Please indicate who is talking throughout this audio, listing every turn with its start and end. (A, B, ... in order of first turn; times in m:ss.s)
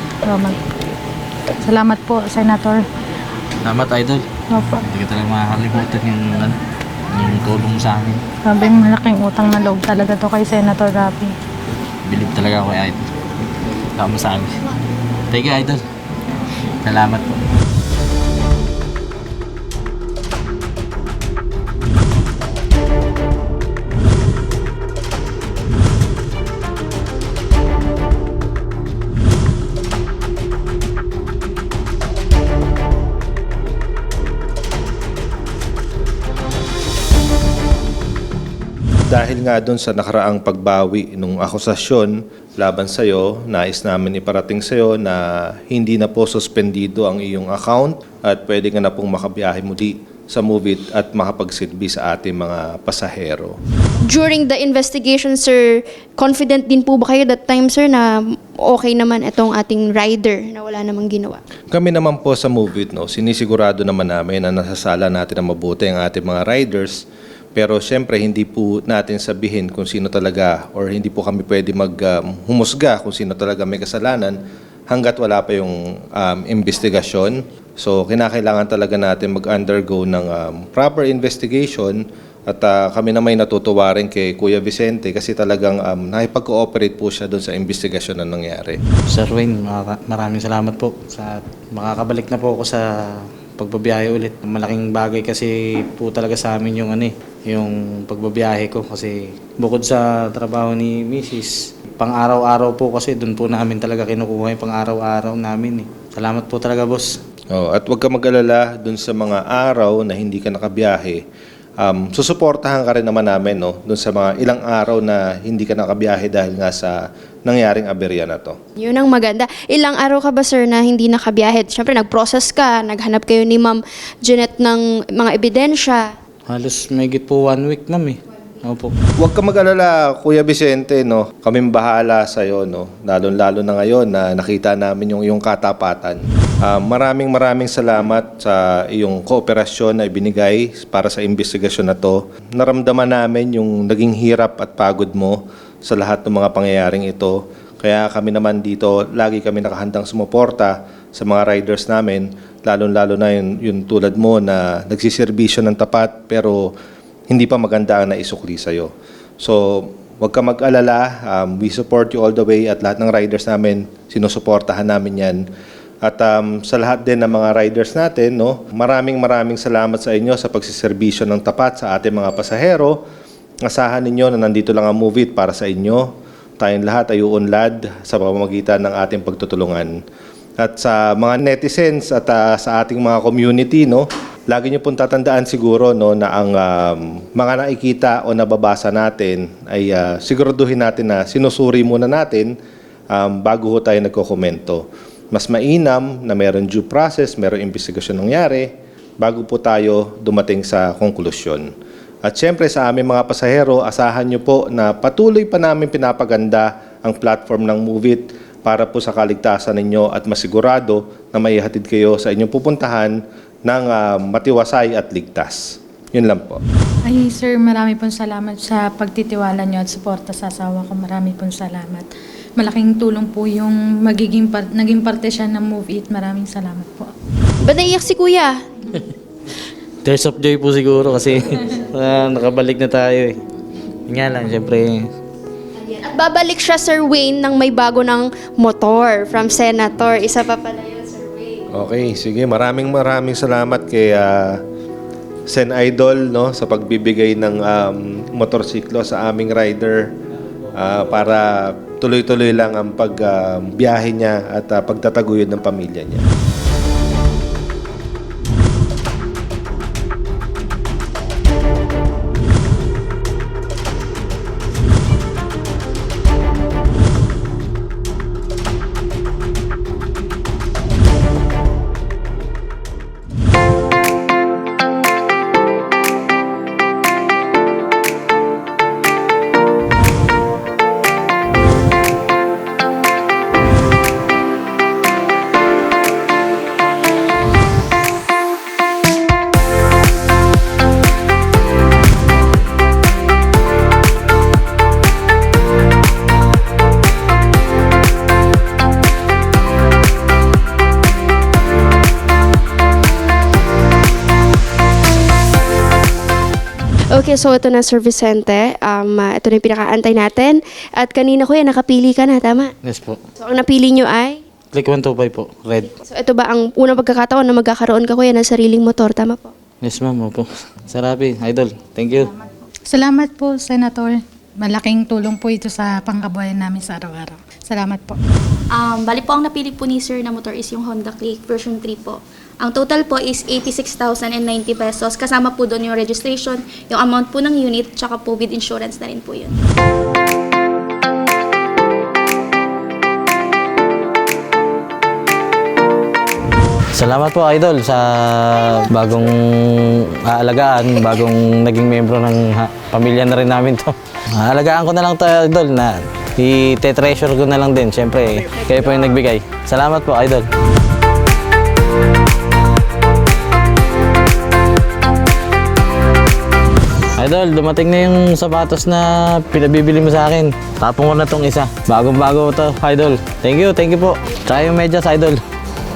0:00.2-0:00.7 A
0:01.6-0:02.8 A
0:03.6-0:04.2 B
0:04.5-0:04.8 A
0:04.8-0:06.6 B
0:07.1-0:08.2 B
0:08.4-0:11.3 A
0:12.0-0:13.0 B
0:13.9-0:14.5 B
0:15.3-0:15.8 B
0:16.8-0:17.4 B
0:39.1-0:53.6 C
0:54.0-1:01.4 D
1:01.7-1:07.0 C
1:07.6-1:14.4 C
1:14.9-1:28.8 C
1:29.1-1:32.9 B
1:33.6-1:47.2 B
1:47.5-1:51.2 C
1:51.8-1:58.6 C
1:58.8-2:06.1 D
2:06.5-2:08.9 B
2:09.2-2:36.7 C
2:37.3-2:38.9 C
2:39.4-2:45.4 C
2:46.0-2:53.0 C
2:53.7-2:59.9 C
3:00.6-3:12.5 C
3:13.1-3:18.7 C
3:19.2-3:21.7 C
3:22.3-3:33.2 C
3:33.7-3:36.6 C
3:37.1-3:47.1 A
3:47.6-3:48.6 D
3:50.0-3:53.4 B
3:54.1-3:55.1 B
3:55.8-4:01.6 D
4:01.7-4:04.6 C
4:05.5-4:10.0 C
4:10.7-4:16.2 C
5:07.1-5:12.7 D
5:12.8-5:13.2 B
5:13.4-5:14.4 D
5:14.7-5:15.9 B
5:16.1-5:19.5 D
5:19.8-5:22.3 B
5:22.9-5:28.2 A
5:28.7-5:39.6 E
5:46.9-6:00.4 B
5:58.5-5:59.0 D
6:07.2-6:15.4 B